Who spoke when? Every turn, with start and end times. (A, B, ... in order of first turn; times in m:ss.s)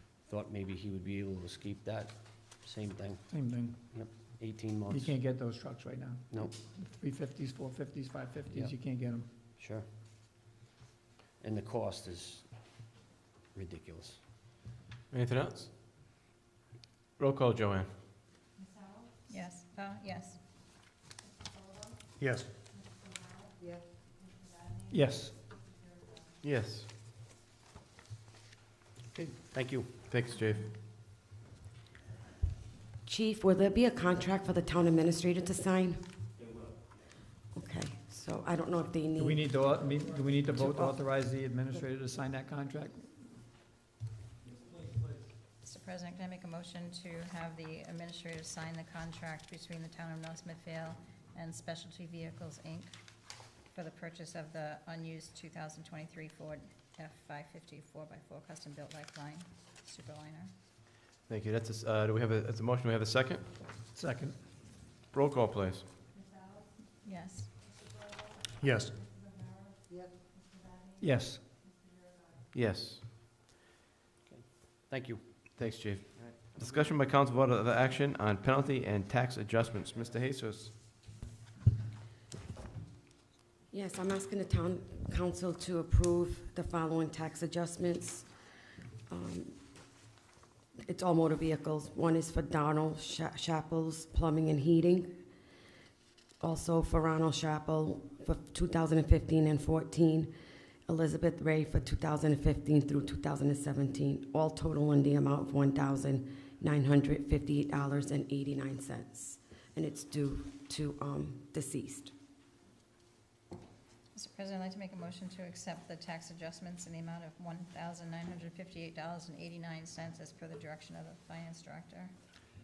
0:00.3-0:03.3 A
0:03.3-0:03.8 B
0:03.9-0:05.1 A
0:04.9-0:09.3 B
0:09.6-0:09.9 A
0:11.4-0:12.5 A
0:13.5-0:14.2 A
0:15.1-0:15.7 C
0:17.2-0:17.9 C
0:19.3-0:20.4 D
0:24.9-0:25.4 B
0:26.4-0:26.9 C
0:29.1-0:29.9 A
0:30.1-0:30.7 C
0:33.0-0:36.0 E
0:37.5-0:39.4 E
0:39.2-0:43.2 B
0:40.5-0:40.9 E
0:45.6-0:52.9 D
0:53.7-1:00.5 D
1:01.3-1:03.5 C
1:03.9-1:04.5 B
1:05.1-1:05.9 C
1:07.0-1:07.5 D
1:11.0-1:11.4 B
1:12.5-1:13.0 C
1:14.3-1:15.2 A
1:15.6-1:20.8 C
1:23.7-1:28.3 E
1:29.1-1:29.5 E
1:30.8-1:35.2 E
1:36.4-1:40.3 E
1:40.9-1:52.1 E
1:54.1-2:02.1 D